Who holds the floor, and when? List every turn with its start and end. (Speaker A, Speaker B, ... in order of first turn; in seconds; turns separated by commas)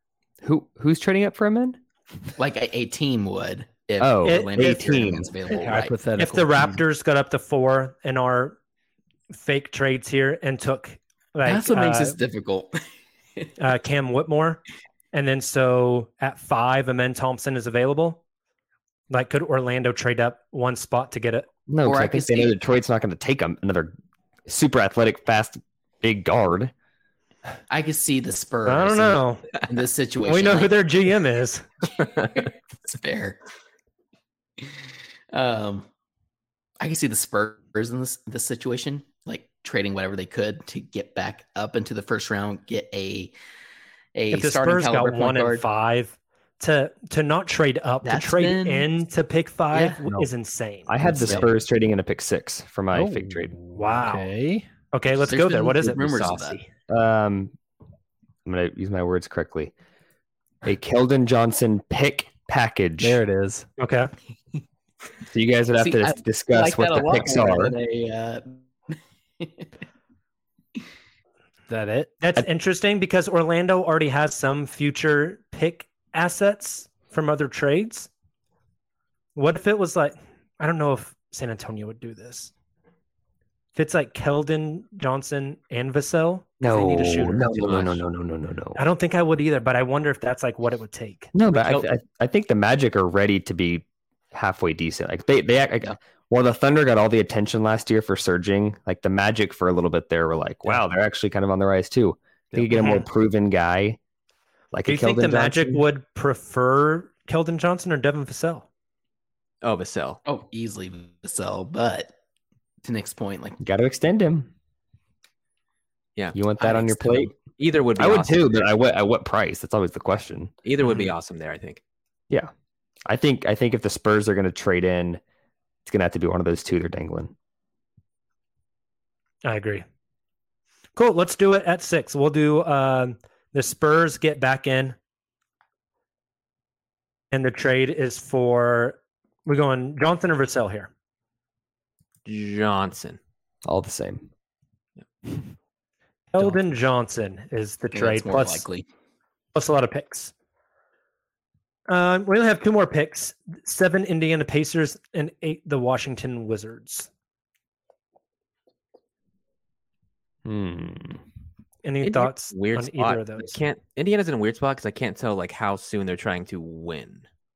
Speaker A: 0.4-1.8, Speaker B: 2.4-6.0, Speaker A: 4.0-5.3, Speaker C: 4.2-4.8, Speaker D: 5.5-6.8, Speaker C: 6.2-8.6, Speaker C: 9.3-12.2, Speaker B: 11.4-12.8, Speaker C: 13.6-14.6, Speaker C: 15.1-18.2, Speaker C: 19.1-21.5, Speaker A: 21.7-23.9, Speaker B: 21.8-22.6, Speaker A: 24.5-26.7, Speaker B: 27.7-30.7, Speaker C: 28.7-29.5, Speaker C: 30.2-31.6, Speaker B: 32.2-33.4, Speaker B: 35.3-35.9, Speaker B: 36.8-43.3, Speaker B: 44.1-45.6, Speaker C: 44.3-50.9, Speaker B: 48.0-48.9, Speaker B: 49.7-50.0, Speaker A: 50.9-53.6, Speaker B: 51.0-51.5, Speaker D: 52.9-54.7, Speaker C: 53.8-54.3, Speaker C: 54.9-56.6, Speaker B: 55.2-56.6, Speaker A: 56.9-57.5, Speaker A: 58.5-59.7, Speaker A: 60.6-63.2, Speaker D: 63.0-63.7, Speaker C: 63.8-64.1, Speaker A: 65.3-67.8, Speaker B: 65.8-69.7, Speaker D: 71.7-72.1, Speaker C: 72.2-78.1, Speaker C: 79.4-82.5, Speaker C: 83.8-87.9, Speaker A: 86.6-88.8, Speaker C: 88.8-91.3, Speaker A: 91.3-104.0, Speaker E: 91.5-91.9, Speaker C: 102.7-103.1, Speaker A: 104.7-105.8, Speaker C: 104.9-108.7, Speaker E: 109.6-110.2, Speaker B: 110.2-112.1, Speaker B: 112.8-113.6, Speaker A: 113.6-114.5, Speaker A: 116.3-117.3, Speaker B: 116.6-117.3, Speaker E: 117.6-118.6, Speaker A: 118.0-120.5, Speaker E: 120.6-121.8, Speaker A: 123.1-125.2, Speaker A: 125.8-127.3, Speaker C: 129.4-129.8, Speaker C: 131.0-135.0, Speaker C: 137.3-140.9, Speaker E: 142.2-143.2, Speaker A: 143.6-144.3, Speaker C: 146.3-148.6, Speaker B: 147.9-148.9, Speaker C: 149.5-150.3, Speaker C: 151.9-157.1, Speaker A: 160.5-161.2, Speaker C: 161.8-163.6, Speaker E: 162.0-167.3